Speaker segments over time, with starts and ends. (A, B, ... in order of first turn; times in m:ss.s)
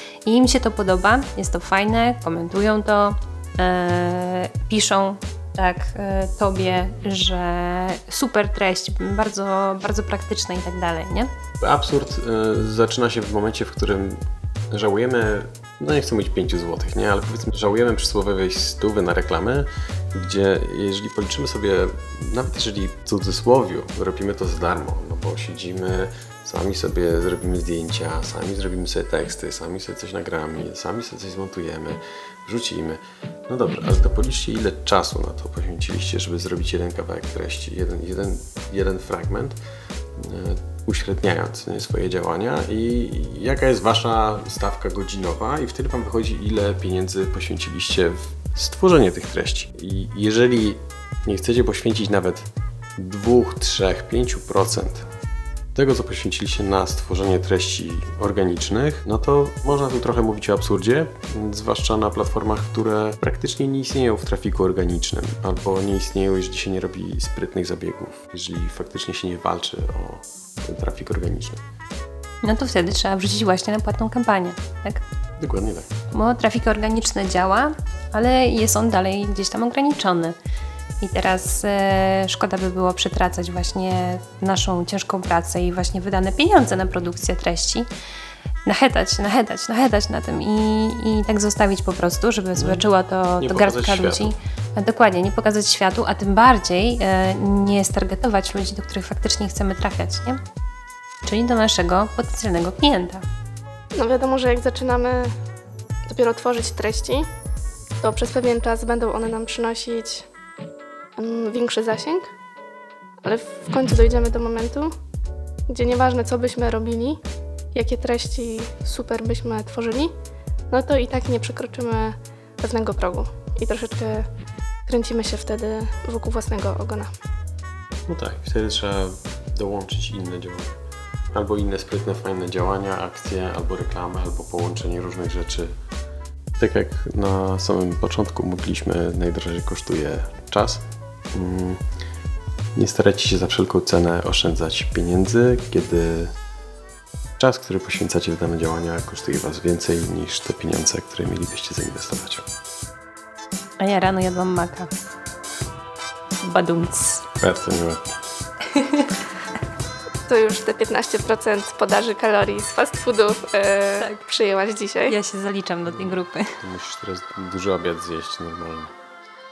0:00.2-0:11.3 A
0:11.6-0:14.2 B
0:14.7-0:39.6 B
0:40.2-0:55.1 B
0:55.7-1:11.6 B
1:12.4-1:15.0 A
1:15.4-1:15.9 B
1:16.1-1:20.4 A
1:21.0-1:27.9 A
1:28.6-1:40.4 A
1:32.6-1:32.8 B
1:33.4-1:34.3 B
1:41.2-1:43.2 A
1:43.9-1:45.3 C
1:46.0-1:47.3 C
1:48.0-1:50.2 C
1:51.2-1:52.3 C
1:53.2-1:54.9 C
1:55.7-1:57.2 C
1:57.7-2:00.1 C
2:00.7-2:04.3 C
2:04.9-2:07.1 C
2:08.1-2:10.8 B
2:11.3-2:15.7 B
2:16.6-2:21.8 B
2:22.8-2:26.3 B
2:27.4-2:32.4 B
2:33.8-2:34.9 A
2:36.4-2:37.3 A
2:37.4-2:38.2 B
2:38.7-2:39.2 A
2:40.3-2:45.1 C
2:44.0-2:44.2 A
2:45.1-2:46.6 A
2:45.9-2:48.9 B